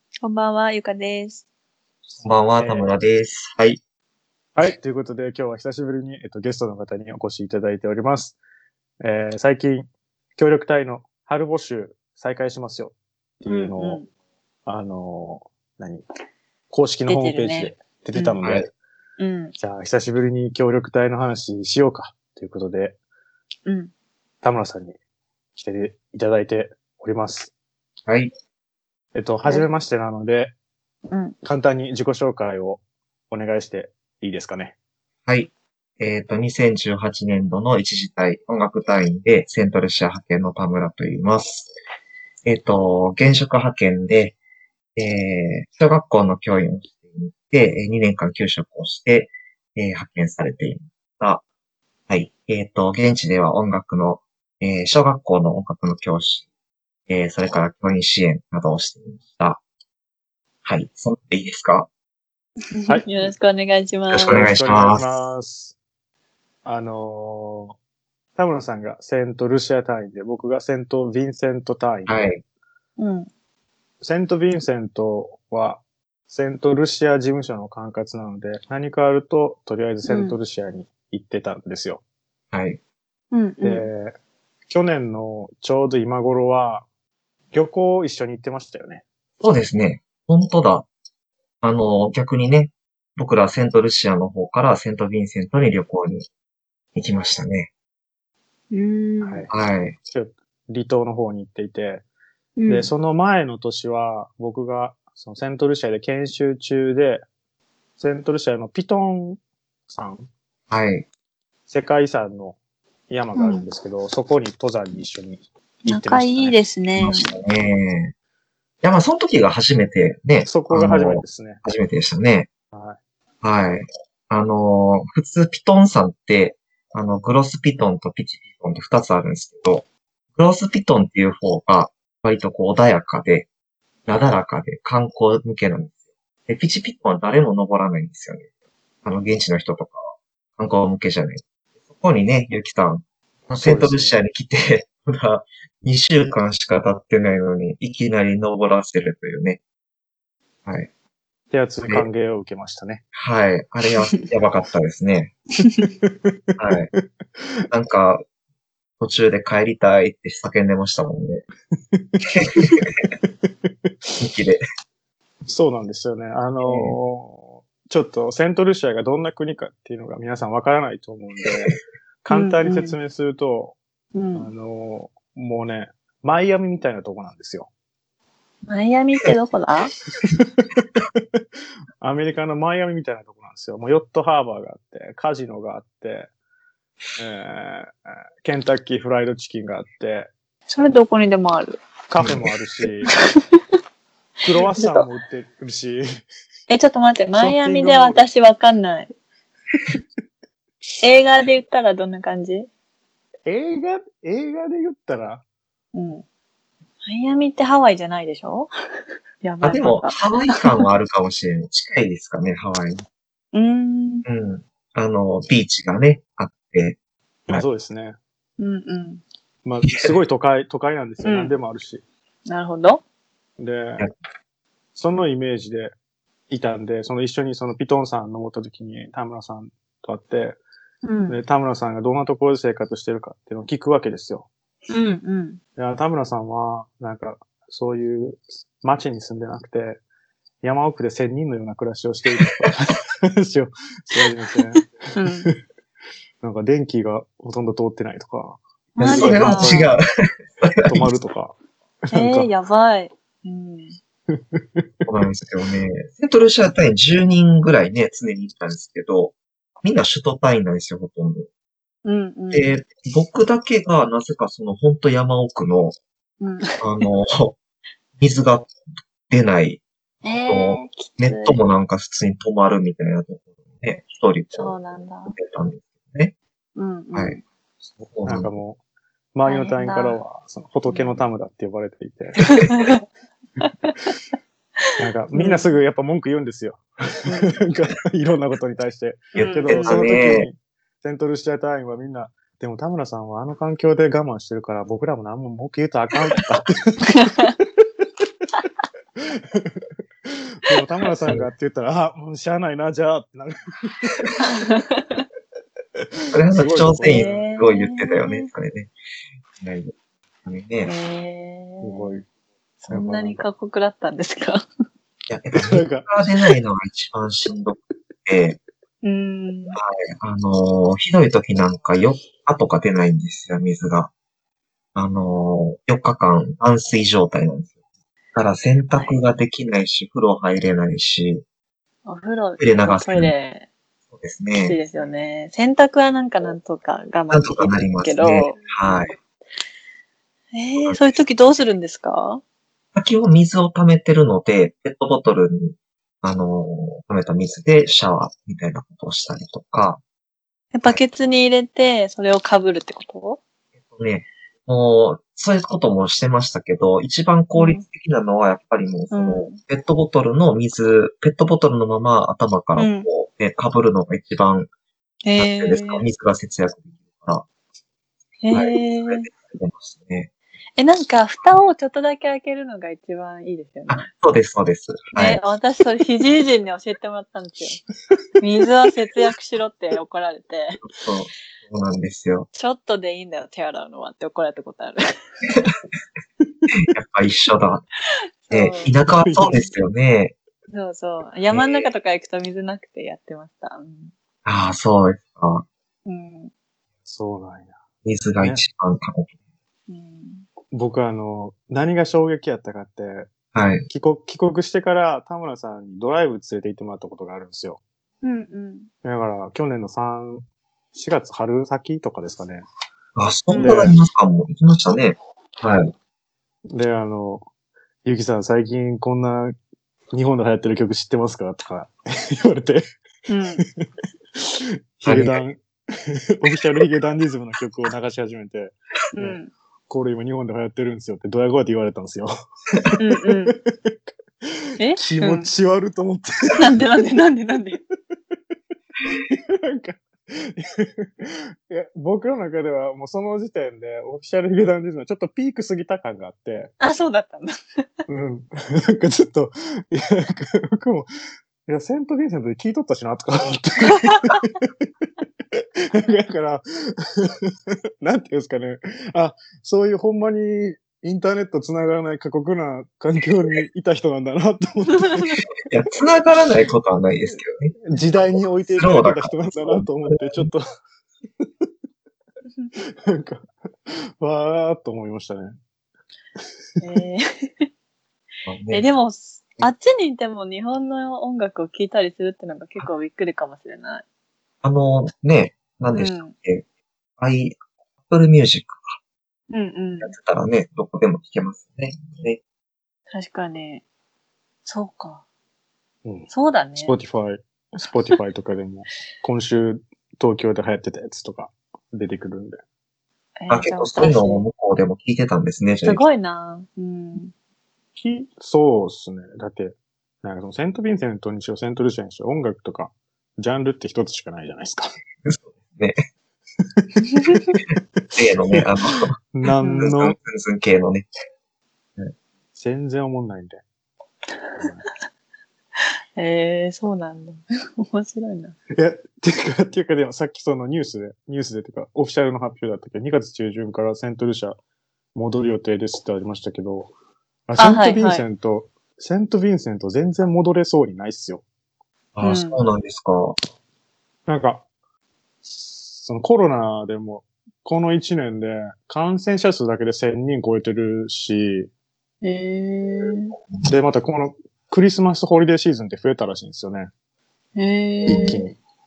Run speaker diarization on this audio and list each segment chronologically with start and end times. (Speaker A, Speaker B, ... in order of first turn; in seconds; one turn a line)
Speaker A: 0.2-1.4
Speaker B: 2.2-3.8
Speaker C: 2.6-2.9
Speaker C: 4.6-8.4
Speaker C: 9.0-14.0
Speaker A: 13.5-14.1
Speaker C: 14.7-16.0
Speaker C: 16.7-18.7
Speaker A: 17.1-18.4
Speaker B: 18.4-18.7
Speaker A: 19.2-19.6
Speaker C: 19.6-23.0
Speaker A: 23.7-23.9
Speaker C: 24.4-25.0
Speaker C: 25.6-27.5
Speaker B: 28.1-28.3
Speaker C: 29.1-30.5
Speaker A: 31.1-31.4
Speaker C: 31.4-34.8
Speaker B: 35.3-41.7
Speaker B: 42.4-44.4
Speaker B: 45.0-51.4
Speaker B: 52.1-56.5
Speaker B: 57.1-59.6
Speaker B: 60.6-61.9
Speaker A: 62.7-64.5
Speaker C: 62.9-63.3
Speaker B: 64.1-65.1
Speaker C: 64.3-65.8
Speaker C: 66.7-67.8
Speaker C: 68.4-72.1
Speaker B: 72.1-72.4
Speaker A: 73.0-73.3
Speaker C: 74.0-82.0
Speaker A: 80.1-80.3
Speaker B: 82.5-82.8
Speaker A: 83.3-83.9
Speaker C: 83.6-84.2
Speaker C: 84.7-86.9
Speaker C: 87.5-89.0
Speaker B: 89.4-90.9
Speaker B: 91.6-96.3
Speaker B: 97.0-97.7
Speaker A: 98.7-99.5
Speaker C: 99.2-99.5
Speaker B: 99.5-100.0
Speaker C: 100.1-102.0
Speaker A: 102.6-102.9
Speaker C: 102.7-107.2
Speaker C: 108.0-110.3
Speaker B: 110.7-111.1
Speaker C: 111.7-112.6
Speaker C: 113.1-116.6
Speaker A: 113.4-113.7
Speaker A: 115.9-117.3
Speaker B: 117.0-118.1
Speaker B: 118.8-122.5
Speaker C: 120.5-121.6
Speaker C: 122.7-123.0
Speaker B: 123.4-133.5
Speaker B: 134.1-135.9
Speaker B: 136.5-138.5
Speaker B: 139.0-141.4
Speaker B: 141.9-149.6
Speaker C: 143.6-144.2
Speaker C: 151.5-153.0
Speaker B: 153.1-155.3
Speaker C: 156.0-157.7
Speaker B: 156.6-156.9
Speaker B: 157.7-158.2
Speaker B: 159.0-161.4
Speaker C: 161.9-164.2
Speaker B: 162.2-163.1
Speaker B: 164.2-164.6
Speaker C: 165.5-173.8
Speaker B: 166.6-167.0
Speaker A: 172.3-173.0
Speaker A: 174.1-174.5
Speaker C: 174.3-177.7
Speaker A: 178.7-179.9
Speaker C: 180.3-181.4
Speaker C: 182.0-186.3
Speaker C: 187.2-190.3
Speaker A: 190.7-191.8
Speaker C: 192.1-193.1
Speaker C: 194.4-196.2
Speaker A: 194.7-195.1
Speaker A: 196.7-199.1
Speaker C: 197.4-198.2
Speaker A: 201.0-202.7
Speaker C: 203.5-205.4
Speaker A: 205.9-206.2
Speaker A: 207.0-208.7
Speaker A: 209.4-210.8
Speaker B: 209.6-213.0
Speaker A: 213.5-214.2
Speaker B: 214.2-217.0
Speaker C: 217.5-218.2
Speaker A: 218.6-219.2
Speaker C: 219.7-222.0
Speaker B: 219.8-220.2
Speaker A: 221.2-221.5
Speaker A: 222.5-223.0
Speaker C: 223.6-224.1
Speaker C: 224.9-225.9
Speaker C: 226.5-230.6
Speaker A: 231.0-231.4
Speaker C: 231.3-234.5
Speaker A: 234.9-235.6
Speaker C: 235.8-240.0
Speaker C: 240.6-244.8
Speaker A: 245.1-245.5
Speaker C: 246.4-249.9
Speaker A: 249.0-249.9
Speaker B: 249.1-250.1
Speaker B: 250.6-251.1
Speaker C: 250.8-251.6
Speaker C: 252.1-252.5
Speaker A: 252.1-254.0
Speaker C: 254.3-255.1
Speaker B: 255.1-261.5
Speaker A: 262.1-262.7
Speaker B: 262.5-266.0
Speaker A: 266.4-267.1
Speaker B: 266.8-267.6
Speaker B: 268.2-268.7
Speaker B: 269.3-269.8
Speaker A: 270.2-271.6
Speaker B: 270.5-276.4
Speaker A: 274.6-275.4
Speaker A: 276.8-277.4
Speaker B: 278.0-278.5
Speaker C: 278.2-278.8
Speaker C: 279.3-282.4
Speaker A: 279.5-280.2
Speaker A: 280.9-281.2
Speaker A: 282.5-283.0
Speaker A: 283.6-283.9
Speaker C: 285.0-297.5
Speaker A: 285.3-285.7
Speaker A: 287.3-287.6
Speaker B: 289.4-290.5
Speaker A: 289.4-290.1
Speaker A: 297.2-297.5
Speaker C: 299.2-304.3
Speaker A: 304.4-305.2
Speaker C: 306.0-307.5
Speaker B: 306.3-308.9
Speaker A: 307.0-308.5
Speaker B: 309.6-309.9
Speaker B: 310.5-310.9
Speaker A: 310.8-312.2
Speaker C: 311.8-312.2
Speaker A: 312.8-314.7
Speaker C: 312.9-313.5
Speaker B: 315.3-318.6
Speaker C: 315.6-316.1
Speaker A: 319.0-319.8
Speaker B: 319.8-324.1
Speaker B: 324.9-327.7
Speaker B: 328.3-331.4
Speaker A: 328.9-329.2
Speaker A: 332.1-333.7
Speaker B: 332.6-333.3
Speaker B: 334.1-334.8
Speaker A: 334.6-338.6
Speaker B: 337.3-339.1
Speaker A: 340.5-342.4
Speaker B: 340.8-341.2
Speaker B: 342.9-350.0
Speaker A: 350.7-353.4
Speaker B: 353.9-364.7
Speaker A: 357.6-357.8
Speaker A: 359.1-359.6
Speaker A: 362.8-363.1
Speaker A: 365.2-366.1
Speaker B: 365.4-367.5
Speaker A: 368.4-369.3
Speaker B: 368.5-370.3
Speaker A: 370.8-374.1
Speaker B: 373.9-375.4
Speaker A: 375.1-377.8
Speaker A: 378.4-380.8
Speaker B: 380.8-382.5
Speaker A: 382.5-385.0
Speaker C: 386.4-386.7
Speaker B: 386.7-387.8
Speaker A: 388.5-389.6
Speaker B: 388.5-390.4
Speaker C: 389.2-389.6
Speaker A: 390.7-394.1
Speaker B: 391.5-391.9
Speaker B: 394.4-395.7
Speaker A: 396.1-396.5
Speaker C: 397.1-397.8
Speaker B: 398.0-399.3
Speaker C: 398.4-398.6
Speaker A: 399.9-400.5
Speaker C: 400.7-403.3
Speaker B: 403.5-403.9
Speaker C: 403.9-407.8
Speaker A: 408.2-408.9
Speaker C: 409.0-412.6
Speaker B: 413.2-415.9
Speaker A: 413.5-413.8
Speaker C: 413.5-414.0
Speaker C: 416.7-417.5
Speaker C: 418.0-419.6
Speaker C: 420.1-422.9
Speaker A: 423.3-423.6
Speaker C: 423.6-429.4
Speaker B: 425.1-425.4
Speaker A: 429.1-429.5
Speaker C: 429.9-432.3
Speaker A: 433.0-433.6
Speaker C: 433.5-436.8
Speaker A: 434.8-435.5
Speaker A: 436.6-437.8
Speaker C: 439.1-446.7
Speaker A: 446.8-447.8
Speaker C: 448.1-451.1
Speaker C: 451.7-465.3
Speaker B: 465.6-467.8
Speaker C: 467.9-470.6
Speaker B: 468.3-470.5
Speaker C: 471.4-471.7
Speaker C: 472.8-475.6
Speaker A: 476.8-477.7
Speaker B: 478.4-478.9
Speaker A: 478.7-484.0
Speaker B: 484.6-486.6
Speaker A: 485.9-486.3
Speaker B: 487.2-489.0
Speaker A: 489.5-490.1
Speaker B: 490.0-492.4
Speaker A: 493.1-493.8
Speaker A: 494.7-495.2
Speaker C: 496.1-502.6
Speaker A: 496.3-496.9
Speaker A: 503.4-504.4
Speaker B: 503.5-506.0
Speaker A: 505.8-507.3
Speaker C: 508.0-515.0
Speaker B: 515.2-516.0
Speaker C: 516.8-518.7
Speaker A: 517.2-517.5
Speaker B: 518.1-519.2
Speaker C: 519.3-520.2
Speaker A: 519.6-519.9
Speaker B: 519.8-521.1
Speaker C: 522.5-523.6
Speaker C: 524.6-524.8
Speaker A: 525.8-528.6
Speaker C: 528.8-534.6
Speaker C: 535.1-536.9
Speaker C: 537.5-541.4
Speaker A: 537.6-538.2
Speaker B: 542.2-543.4
Speaker A: 542.2-542.6
Speaker C: 544.3-544.7
Speaker C: 545.5-551.7
Speaker A: 552.2-553.4
Speaker C: 553.7-556.9
Speaker A: 557.6-558.4
Speaker B: 558.1-558.4
Speaker C: 558.1-558.6